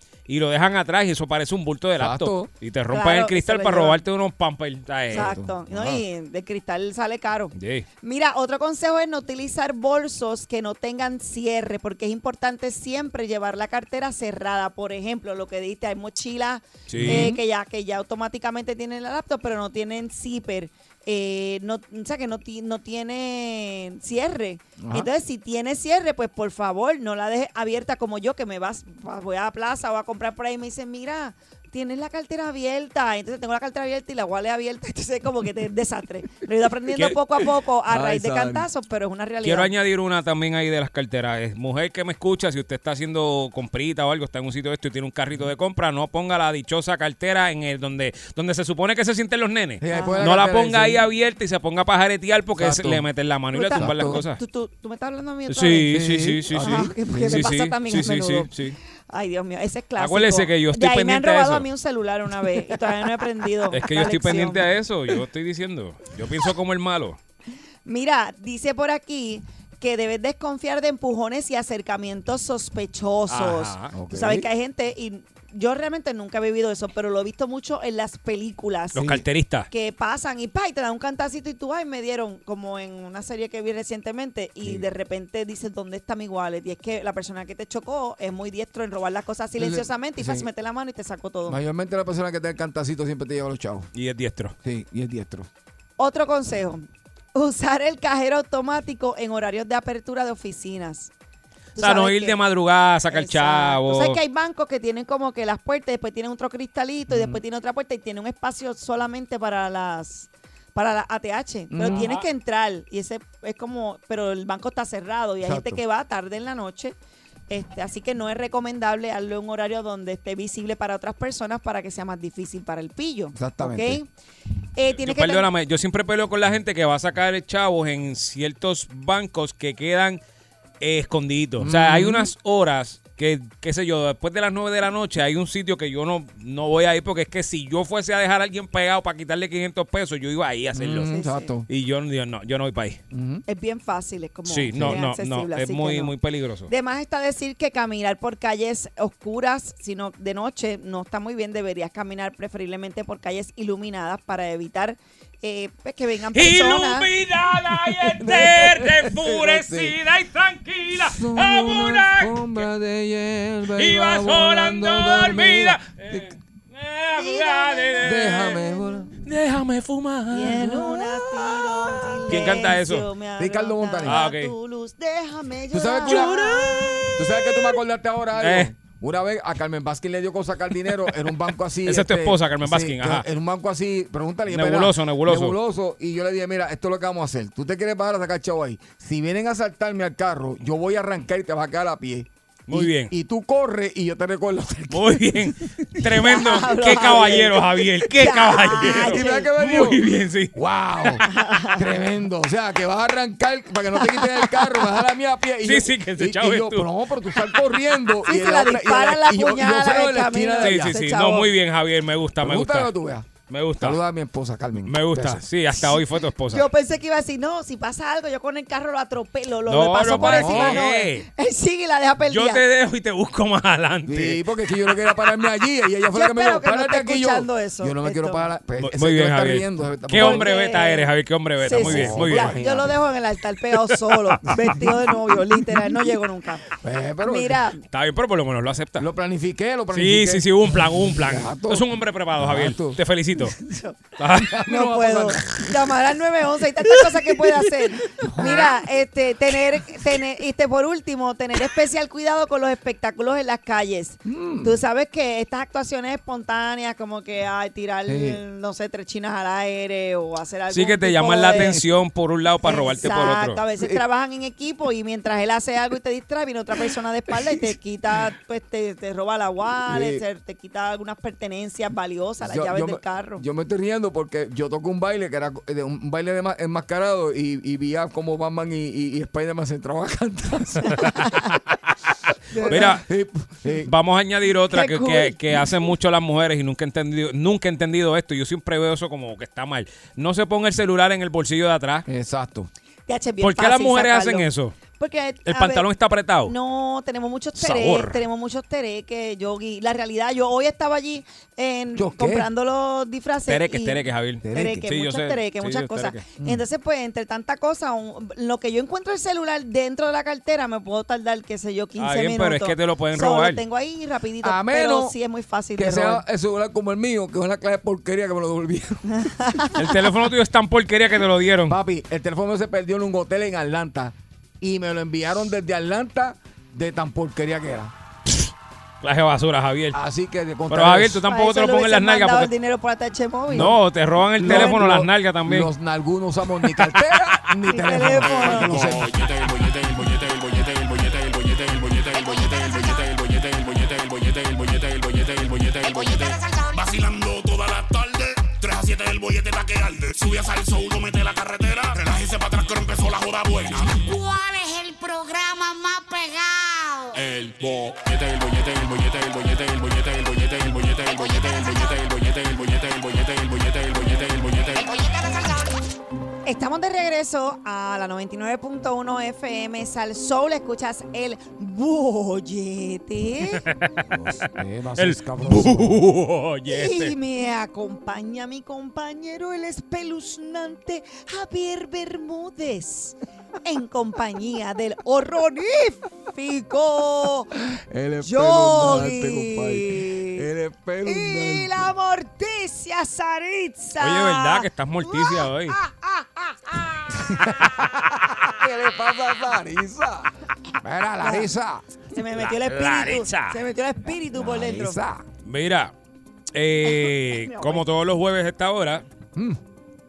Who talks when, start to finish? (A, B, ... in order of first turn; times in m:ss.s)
0:00.3-0:05.4 A
0:02.0-0:02.5 B
0:02.9-0:04.0 C
0:05.1-0:06.0 B
0:05.1-0:39.7 C
0:07.6-0:07.8 A
0:16.9-0:17.4 A
0:16.9-0:17.4 B
0:24.8-0:25.1 B
0:37.9-0:38.7 B
0:39.4-0:54.4 A
0:49.8-0:51.0 B
0:49.9-0:50.2 C
0:52.6-0:53.0 B
0:53.5-0:56.0 C
0:53.7-0:54.2 B
0:55.5-0:58.8 A
0:55.9-0:57.5 B
0:56.5-0:58.5 C
0:59.1-1:04.6 C
1:00.0-1:01.7 A
1:03.7-1:07.2 A
1:07.8-1:19.1 C
1:13.3-1:13.9 A
1:13.9-1:14.5 B
1:18.9-1:19.7 A
1:19.0-1:19.2 B
1:19.7-1:31.6 C
1:24.6-1:24.9 B
1:29.6-1:30.5 B
1:31.4-1:33.9 B
1:33.9-1:34.5 A
1:34.6-1:35.5 B
1:36.0-1:41.1 C
1:41.8-1:42.4 C
1:41.8-1:44.2 A
1:43.1-1:57.0 C
1:47.1-1:47.4 B
1:51.7-1:52.1 B
1:51.8-1:52.2 A
1:55.4-1:55.8 B
1:57.5-2:04.1 C
2:03.3-2:04.0 B
2:04.8-2:05.5 C
2:04.9-2:10.2 A
2:10.8-2:21.1 A
2:11.6-2:12.3 B
2:20.7-2:21.7 B
2:21.1-2:21.5 C
2:21.7-2:23.0 A
2:23.1-2:23.4 B
2:23.4-2:26.1 C
2:24.4-2:26.7 A
2:24.7-2:25.0 B
2:26.7-2:37.1 C
2:36.3-2:42.7 A
2:37.7-2:40.0 B
2:40.9-2:46.4 B
2:43.7-2:48.6 A
2:47.1-2:49.1 C
2:48.0-2:49.1 B
2:49.2-2:50.7 A
2:50.3-2:57.2 C
2:50.5-2:52.2 B
2:52.3-2:53.1 A
2:53.4-2:54.2 B
2:54.0-2:54.5 A
2:55.7-2:56.5 B
2:56.0-2:57.2 A
2:57.1-3:15.5 B
2:58.4-2:58.7 A
3:01.8-3:03.2 A
3:04.5-3:05.5 A
3:12.7-3:13.1 A
3:14.9-3:21.2 A
3:16.0-3:19.5 C
3:16.9-3:17.5 B
3:18.7-3:20.0 B
3:20.5-3:21.2 B
3:21.2-3:21.9 C
3:21.8-3:31.0 B
3:24.0-3:24.8 C
3:25.6-3:26.9 A
3:28.2-3:31.5 C
3:30.6-3:32.9 A
3:32.4-3:35.4 B
3:33.5-3:34.0 A
3:34.8-3:36.7 A
3:36.5-3:42.6 C
3:39.6-3:41.3 A
3:40.1-3:40.8 B
3:42.2-3:45.1 A
3:44.1-3:50.5 B
3:46.1-3:48.4 C
3:48.8-3:52.6 A
3:50.1-3:51.1 C
3:51.6-3:56.7 C
3:51.7-3:53.0 B
3:54.1-3:54.9 A
3:54.5-3:54.8 B
3:56.8-3:57.6 B
3:57.2-3:57.8 C
3:57.9-3:59.1 A
3:59.0-4:03.0 B
3:59.9-4:03.6 A
4:03.6-4:04.0 C
4:04.2-4:04.7 A
4:04.4-4:06.0 B
4:04.7-4:21.8 C
4:08.2-4:08.7 B
4:08.4-4:08.7 A
4:14.2-4:14.8 B
4:18.1-4:18.4 B
4:20.7-4:23.6 A
4:21.5-4:21.8 B
4:22.6-4:33.4 C
4:29.9-4:30.2 B
4:32.4-4:41.0 B
4:40.8-4:41.4 C
4:42.5-4:43.0 C
4:42.6-4:43.9 B
4:42.6-4:43.0 A
4:43.8-4:52.0 A
4:44.7-4:45.7 C
4:52.0-4:52.7 B
4:53.1-4:54.4 C
4:53.4-4:54.8 A
4:55.0-4:55.8 C
4:55.4-4:56.5 A
4:56.4-5:16.2 C
4:57.6-4:58.2 A
5:01.9-5:02.5 B
5:03.4-5:06.2 A
5:04.4-5:04.8 B
5:06.4-5:06.6 B
5:12.0-5:13.6 A
5:14.4-5:15.1 B
5:15.8-5:19.3 B
5:19.1-5:19.8 C
5:19.8-5:21.7 A
5:21.7-5:27.9 B
5:29.0-5:30.0 A
5:29.9-5:31.2 B
5:30.7-5:32.5 A
5:31.2-5:33.8 C
5:33.5-5:35.7 A
5:34.4-5:39.1 B
5:34.4-5:35.0 C
5:36.8-5:37.1 A
5:37.7-5:38.8 C
5:38.1-5:54.1 D
5:42.1-5:43.0 E
5:45.8-5:46.9 E
5:53.9-5:57.2 E
5:57.1-6:05.1 D
6:01.2-6:01.9 E
6:04.8-6:05.8 E
6:06.4-6:13.6 C
6:13.5-6:14.0 A
6:14.1-6:16.0 B
6:15.0-6:17.1 A
6:16.7-6:27.5 C
6:27.7-6:31.7 B
6:28.2-6:30.4 C
6:31.0-6:37.7 C
6:34.0-6:35.8 A
6:37.2-6:40.3 B
6:40.8-6:41.8 B
6:41.2-6:41.5 C
6:42.1-6:45.0 C
6:42.2-6:43.6 A
6:44.3-6:45.2 B
6:45.4-6:45.9 A
6:46.5-6:49.0 A
6:46.8-6:47.8 C